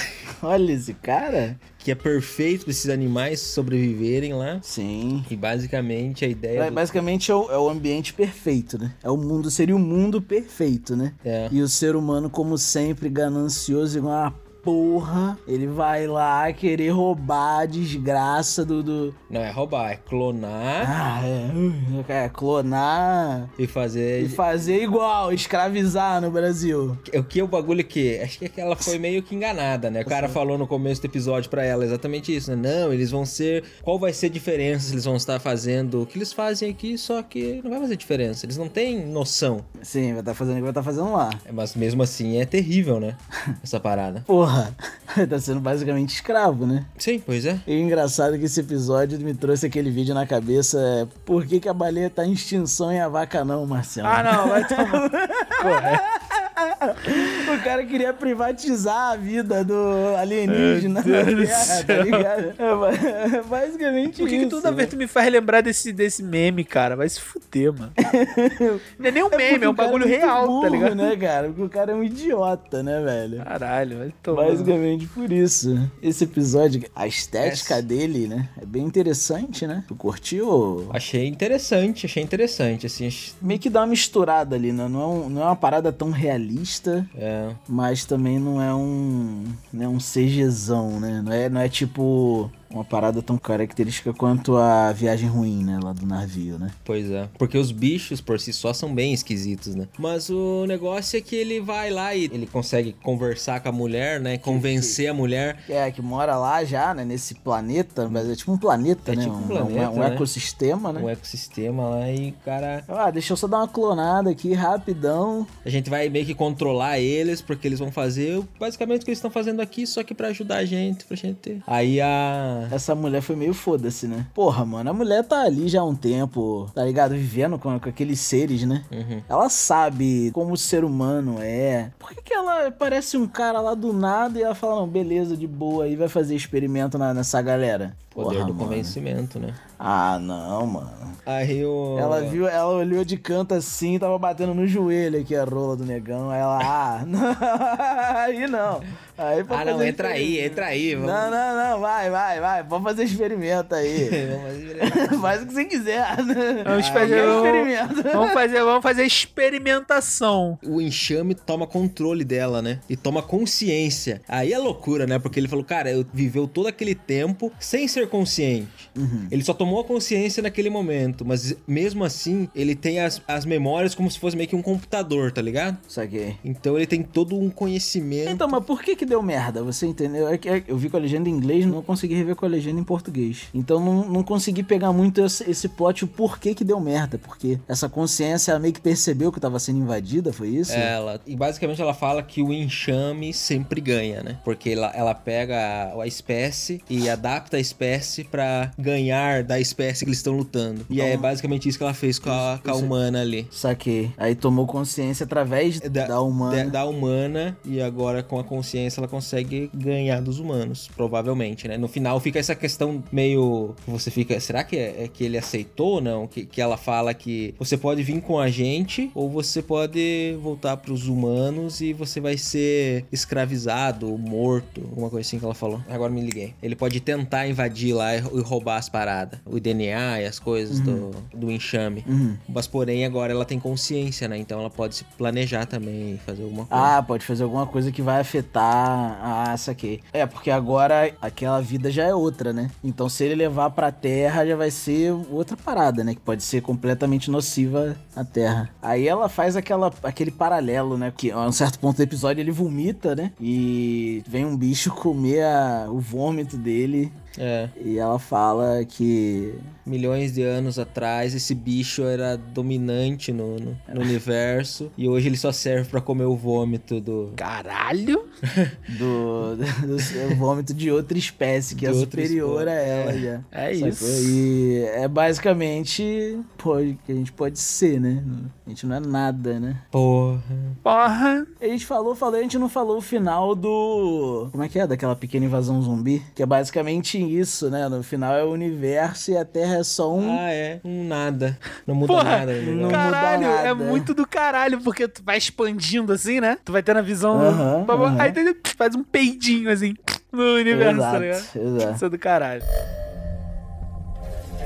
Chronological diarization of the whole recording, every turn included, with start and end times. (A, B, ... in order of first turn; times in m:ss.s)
0:00.4-0:01.6 A
0:01.8-0:04.6 B
0:04.6-0:05.3 A
0:05.3-0:07.0 B
0:06.6-0:19.2 A
0:11.2-0:11.6 B
0:19.3-0:20.9 B
0:20.8-0:23.5 A
0:23.6-0:24.4 B
0:24.2-0:27.0 A
0:27.1-0:39.7 B
0:30.0-0:30.4 A
0:39.8-0:41.4 A
0:41.5-0:44.3 B
0:44.3-0:46.9 A
0:47.0-0:47.6 B
0:47.6-1:04.9 A
0:54.0-0:56.0 C
1:00.5-1:02.2 C
1:04.2-1:07.9 C
1:08.0-1:13.5 A
1:09.0-1:11.1 C
1:13.4-1:14.7 C
1:14.3-1:21.0 A
1:17.4-1:17.8 B
1:20.9-1:23.6 B
1:23.4-1:27.1 A
1:27.1-1:27.6 B
1:27.7-1:36.7 A
1:36.8-1:45.6 B
1:44.4-1:45.0 A
1:45.7-1:51.1 A
1:49.1-1:50.3 B
1:50.9-1:52.9 B
1:52.9-1:55.5 A
1:55.6-2:02.8 B
2:02.7-2:19.0 A
2:08.9-2:09.2 B
2:18.1-2:19.6 B
2:19.8-2:21.2 A
2:21.2-2:22.4 B
2:21.9-2:34.2 A
2:29.5-2:31.4 B
2:33.9-2:35.4 B
2:34.8-2:38.4 A
2:36.6-2:40.6 C
2:36.8-2:37.5 B
2:40.6-2:55.8 B
2:49.0-2:49.3 A
2:55.9-2:56.4 A
2:56.4-2:58.6 B
2:58.2-3:10.9 A
3:10.7-3:23.5 B
3:20.9-3:21.3 A
3:22.2-3:22.9 A
3:23.5-3:26.8 A
3:25.8-3:56.9 B
3:50.7-3:51.0 A
3:52.0-3:52.4 A
3:56.7-4:17.2 A
4:17.4-4:17.7 B
4:17.8-4:19.7 A
4:19.9-4:27.4 B
4:27.4-4:28.2 C
4:28.5-4:28.8 B
4:28.9-4:39.8 A
4:31.7-4:33.3 B
4:33.5-4:34.4 C
4:39.9-4:40.8 B
4:40.8-4:41.5 C
4:41.6-4:50.4 A
4:50.1-4:53.1 B
4:52.0-5:02.6 C
4:52.6-4:54.1 A
4:57.3-4:58.4 A
5:00.7-5:02.0 A